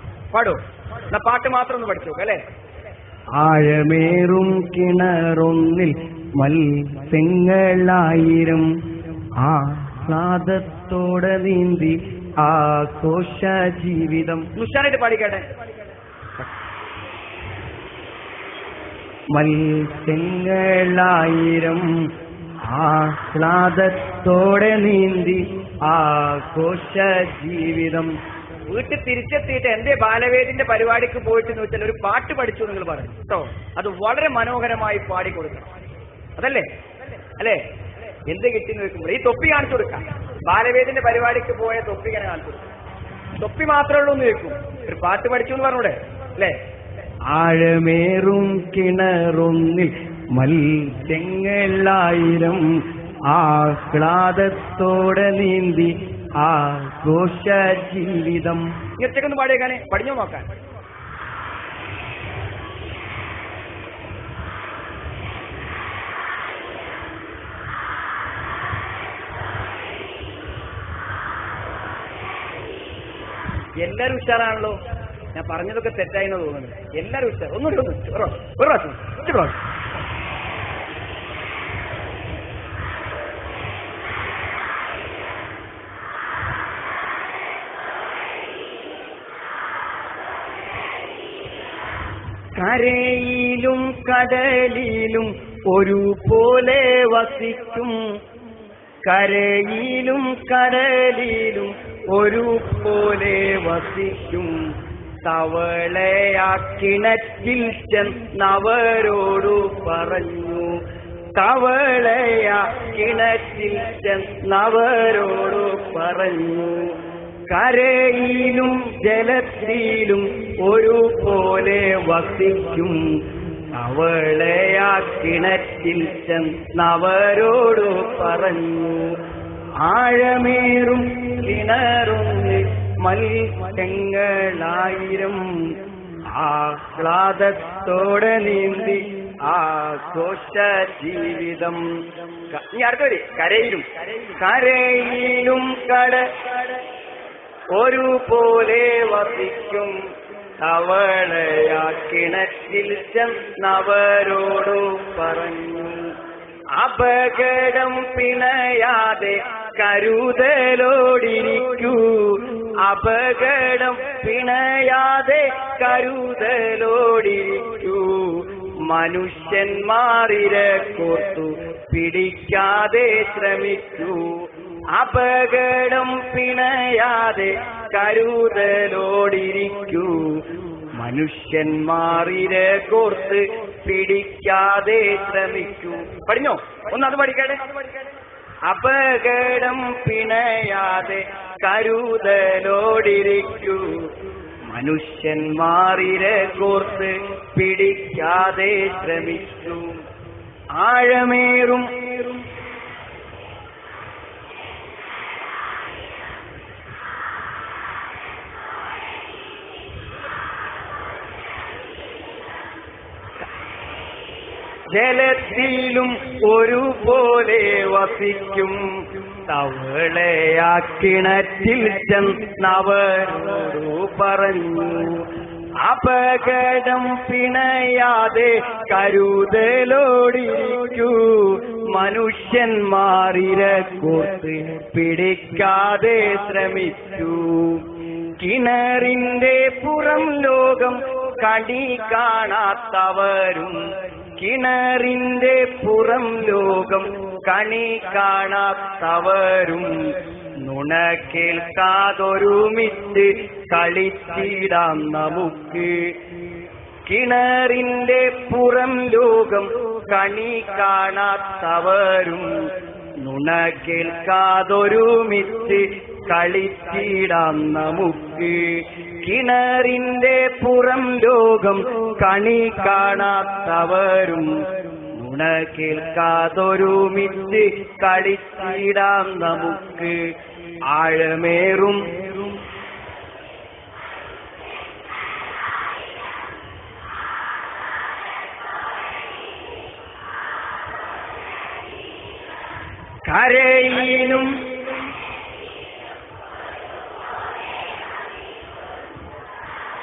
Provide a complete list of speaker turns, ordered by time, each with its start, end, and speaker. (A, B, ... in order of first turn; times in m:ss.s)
0:00.3-0:02.4 A
0:03.4-0:14.5 B
0:14.5-0:15.5 A
0:19.3-0:28.2 B
0:28.7-0:35.7 A
0:36.4-0:37.7 A
0:38.2-0:42.6 A
0:43.4-0:46.6 A
0:47.3-0:58.9 B
0:58.9-1:00.5 A
1:13.8-1:14.8 A
1:15.3-1:19.6 A
1:32.6-1:38.0 B
1:39.0-2:09.2 B
2:09.8-2:22.7 B
2:22.6-2:23.9 A
2:24.3-2:26.8 B
2:27.7-2:30.0 B
2:30.6-2:36.2 B
2:36.8-3:06.3 B
3:06.2-3:07.9 A
3:08.7-3:20.0 B
3:20.8-3:22.4 B
3:34.9-4:16.2 B
4:17.0-4:40.2 B
4:40.9-4:42.6 B
4:53.2-4:54.8 B